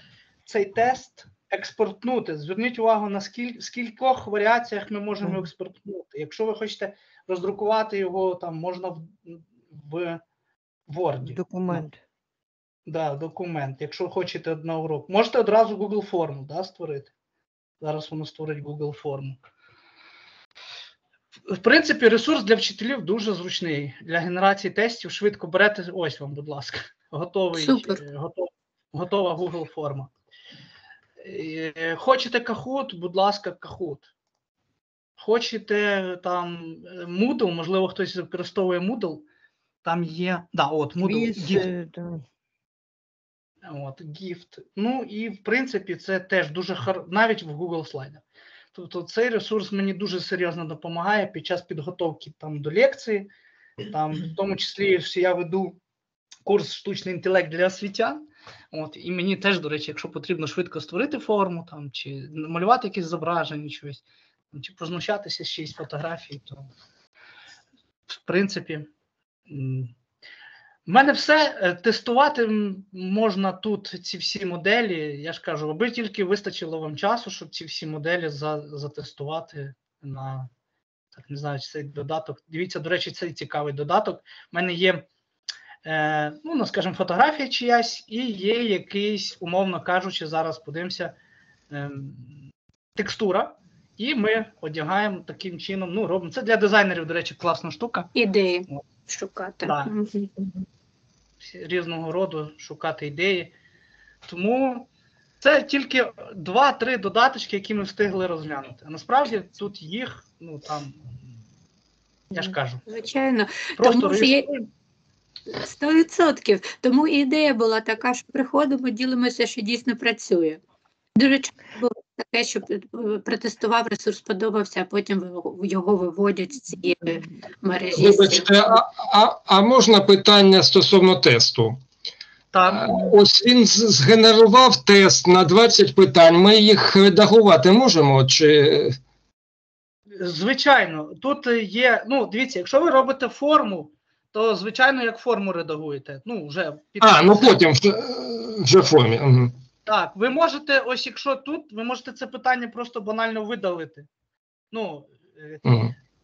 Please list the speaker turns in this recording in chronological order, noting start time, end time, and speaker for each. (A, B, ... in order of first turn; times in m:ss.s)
0:00.4-0:10.2 A
0:10.9-0:11.8 A
0:11.2-0:12.0 B
0:12.9-0:17.1 A
0:17.8-0:19.4 A
0:21.5-0:30.1 A
0:27.6-0:28.0 C
0:31.2-0:34.1 A
0:35.2-0:39.3 A
0:39.8-0:41.7 A
0:41.0-0:42.2 B
0:43.6-0:53.3 A
0:53.9-0:55.8 A
0:56.4-1:06.7 A
1:08.1-1:08.9 A
1:09.5-1:09.9 A
1:10.9-1:20.5 A
1:21.1-1:25.0 A
1:25.8-1:31.2 A
1:31.7-1:32.4 A
1:33.0-1:38.1 A
1:38.1-1:40.3 C
1:39.6-1:39.9 A
1:41.4-1:43.5 A
1:44.3-1:44.9 A
1:45.4-1:51.2 A
1:52.3-1:52.9 A
1:52.4-1:54.5 C
1:53.8-1:54.7 A
1:55.5-2:00.6 C
2:01.2-2:08.7 C
2:08.0-2:11.8 D
2:12.5-2:13.1 A
2:12.7-2:19.0 D
2:20.2-2:27.6 A
2:27.0-2:29.6 D
2:29.9-2:34.1 A
2:34.7-2:35.6 A
2:35.6-2:35.9 D